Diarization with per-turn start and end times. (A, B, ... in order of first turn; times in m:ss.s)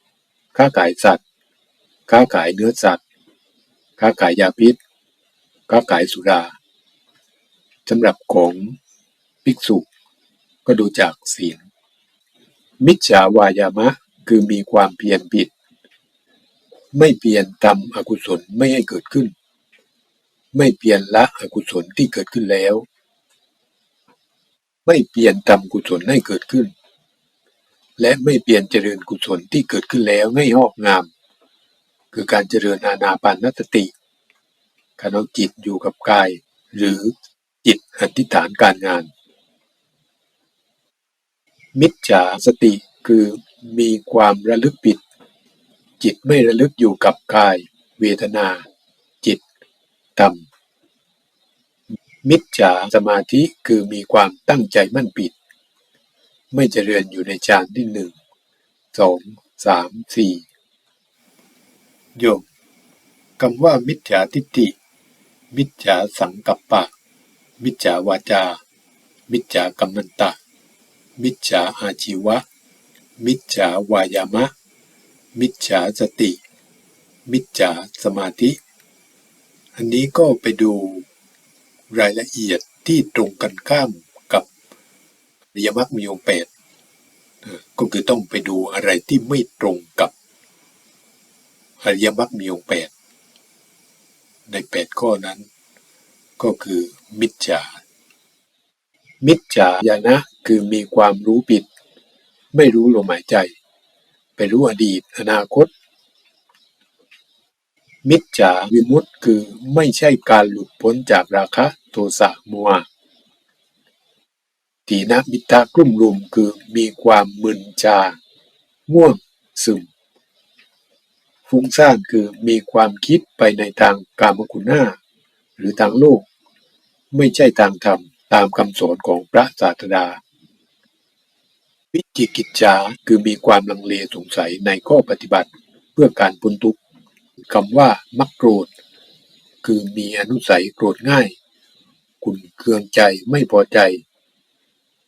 0:00.6-0:01.2 A
0:02.1-0:03.0 A
0:04.0-0:04.8 A
0:05.7-0:06.6 A
0:07.9-0:08.8 A
0:09.4-0:09.9 A
0:10.6-0:11.6 A
0:12.8-0:15.5 A
0:16.9-0:19.3 A
0:20.5-0:22.9 A
0:24.9-0:26.7 A
0:28.0-0:31.1 A
0:32.1-0:33.9 A
0:35.0-0:39.1 A
0:41.8-0:45.0 A
0:46.0-0:48.6 A
0:50.2-0:50.4 A
0:52.2-0:55.4 A
0:56.5-0:58.2 A
0:58.9-1:00.5 A
1:02.2-1:02.4 A
1:03.4-1:04.8 A
1:05.5-1:06.9 A
1:07.6-1:08.6 A
1:09.3-1:10.4 A
1:11.2-1:12.4 A
1:13.2-1:14.5 A
1:15.4-1:16.4 A
1:17.3-1:18.6 A
1:19.8-1:21.1 A
1:21.9-1:24.5 A
1:25.5-1:26.5 A
1:27.5-1:30.1 A
1:31.8-1:32.9 A
1:34.5-1:35.5 A
1:36.4-1:37.7 A
1:39.2-1:41.7 A
1:42.5-1:43.6 A
1:44.4-1:45.7 A
1:48.0-1:52.9 A
1:54.9-1:58.2 A
1:58.9-1:59.9 A
2:01.5-2:05.0 A
2:05.6-2:06.2 A
2:07.1-2:10.2 A
2:11.9-2:16.8 A
2:17.5-2:18.7 A
2:19.6-2:21.4 A
2:22.2-2:24.0 A